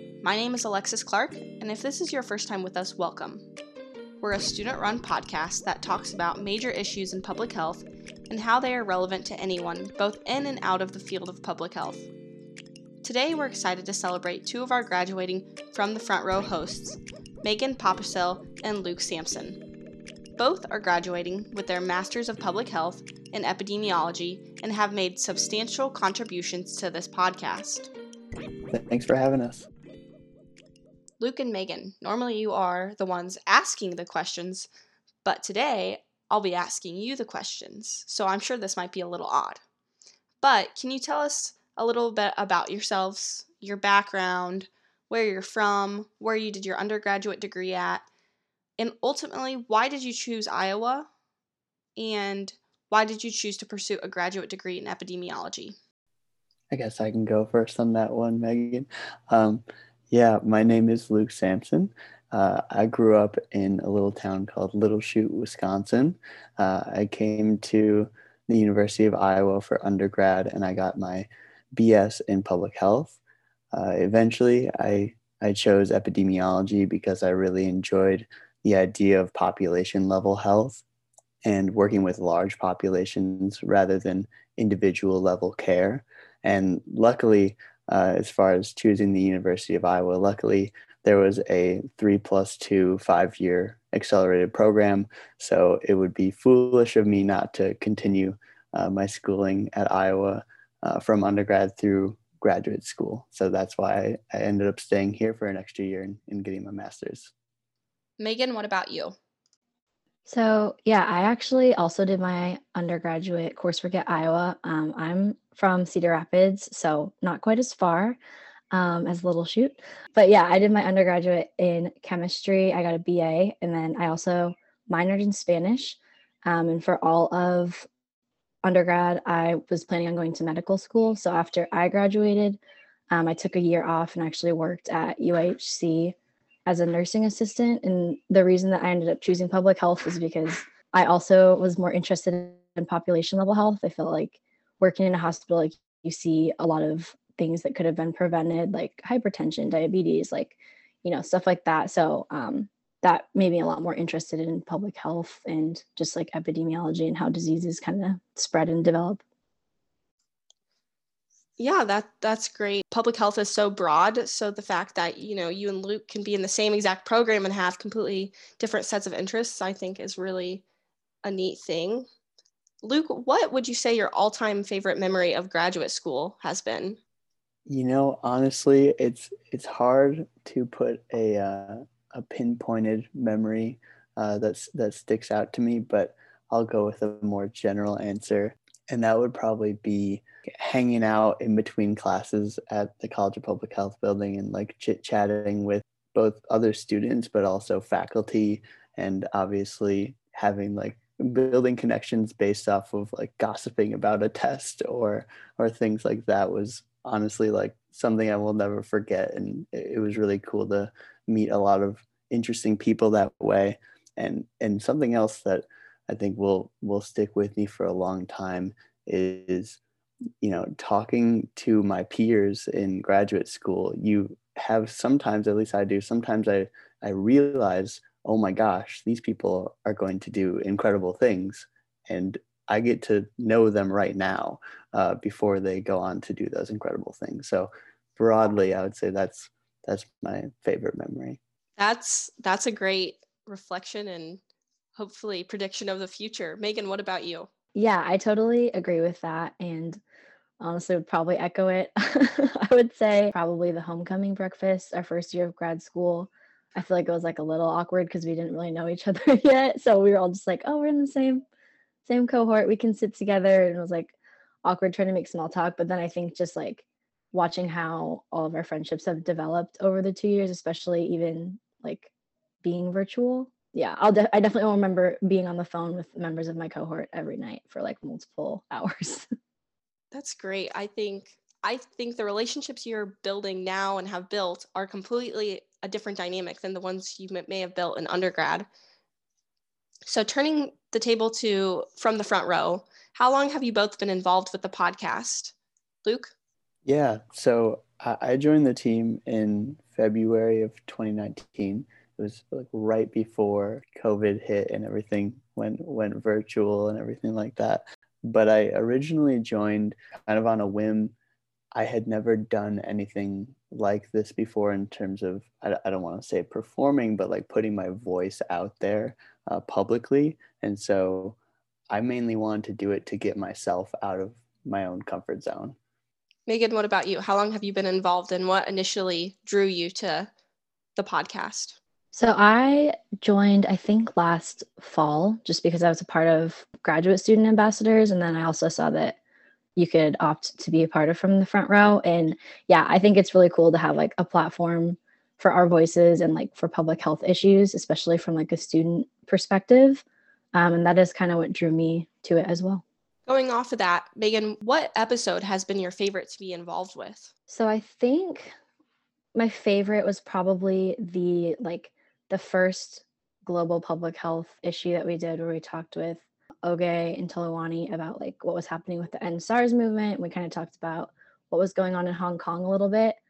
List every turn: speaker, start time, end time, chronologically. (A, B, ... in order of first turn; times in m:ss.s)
0:00.2-0:03.5 A
0:04.2-0:12.1 A
0:13.0-0:19.6 A
0:20.4-0:27.9 A
0:28.7-0:29.7 B
0:31.2-0:34.7 A
0:35.2-0:39.6 A
0:40.4-0:48.0 A
0:48.8-0:51.1 A
0:52.0-0:55.8 A
0:56.7-1:13.2 B
1:13.7-1:20.8 B
1:21.4-1:47.3 B
1:48.2-1:49.2 A
1:50.3-1:58.2 C
1:58.7-2:07.9 C
2:08.6-2:12.6 C
2:13.1-2:16.2 C
2:16.7-2:39.2 C
2:41.6-2:50.6 A
2:51.2-2:52.1 A
2:52.8-2:57.0 A
2:57.7-3:39.8 B
3:40.4-4:01.4 B
4:01.8-4:04.4 A
4:05.0-4:07.5 A
4:07.8-4:10.0 C
4:10.6-4:21.4 C
4:22.1-4:32.1 C
4:32.6-4:39.3 C
4:40.1-4:48.7 A
4:50.1-4:55.5 A
4:56.0-4:56.3 A
4:56.8-5:11.2 B
5:11.8-5:21.4 B
5:21.9-5:25.8 B
5:26.5-5:30.3 A
5:31.0-5:31.8 A
5:32.1-5:39.2 C
5:39.8-5:52.8 C
5:53.3-5:57.3 A
5:57.5-5:58.5 C
5:59.3-6:13.2 C